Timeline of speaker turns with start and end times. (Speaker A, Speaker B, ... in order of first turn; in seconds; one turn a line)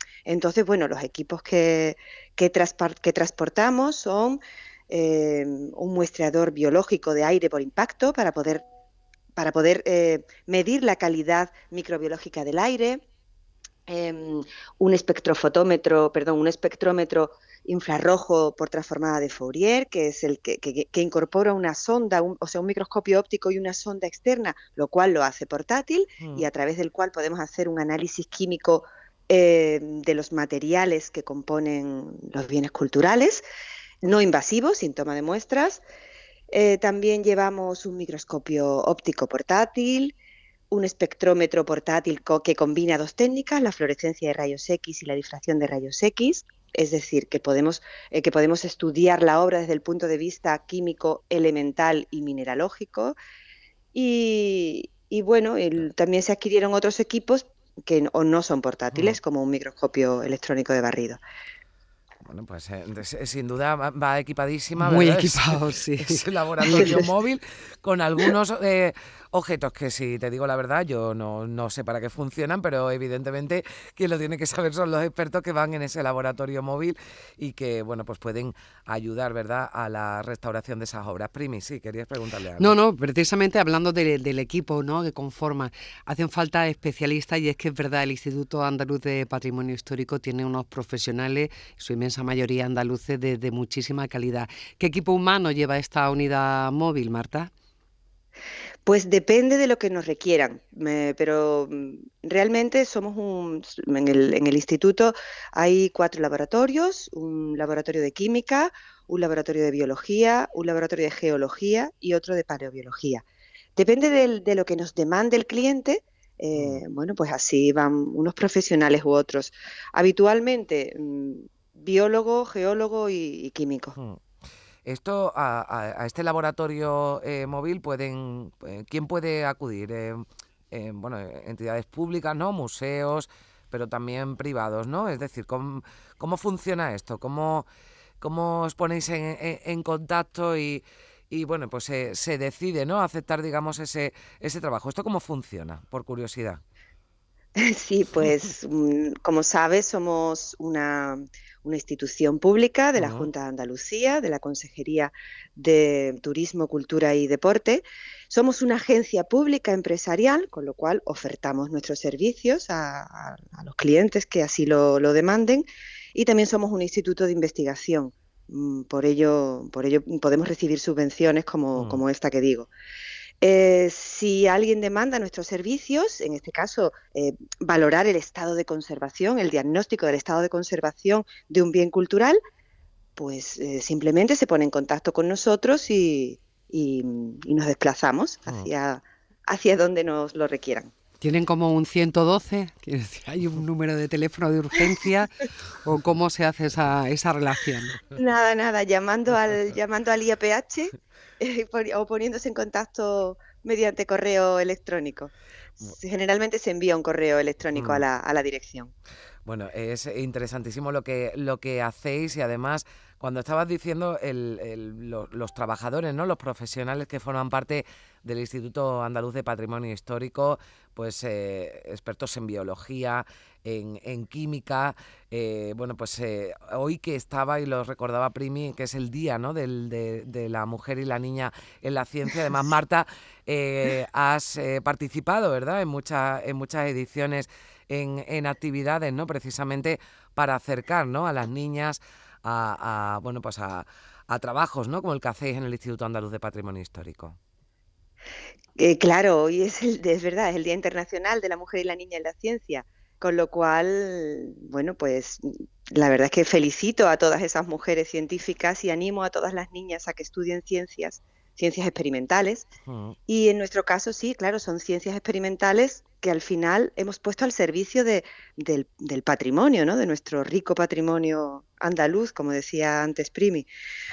Speaker A: 0.2-8.6
Speaker A: 9.4-13.0
Speaker A: 13.9-33.4
Speaker B: 26.2-26.5
Speaker A: 34.0-35.8
Speaker A: 36.5-40.1
Speaker A: 40.7-53.1
Speaker A: 53.9-61.2
Speaker B: 62.2-82.8
Speaker C: 64.8-67.0
Speaker A: 66.7-67.0
Speaker C: 82.6-97.5
Speaker A: 98.8-113.2
Speaker A: 113.8-123.9
Speaker B: 116.5-116.8
Speaker B: 123.9-124.2
Speaker B: 124.8-137.7
Speaker B: 138.2-146.6
Speaker A: 147.6-172.7
Speaker B: 152.9-153.3
Speaker B: 171.8-172.0
Speaker A: 173.4-182.4
Speaker A: 183.2-190.9
Speaker C: 191.2-197.9
Speaker A: 198.1-208.9
Speaker B: 207.8-208.1
Speaker B: 209.4-247.4
Speaker A: 248.8-262.7
Speaker B: 262.9-263.1
Speaker A: 263.3-273.7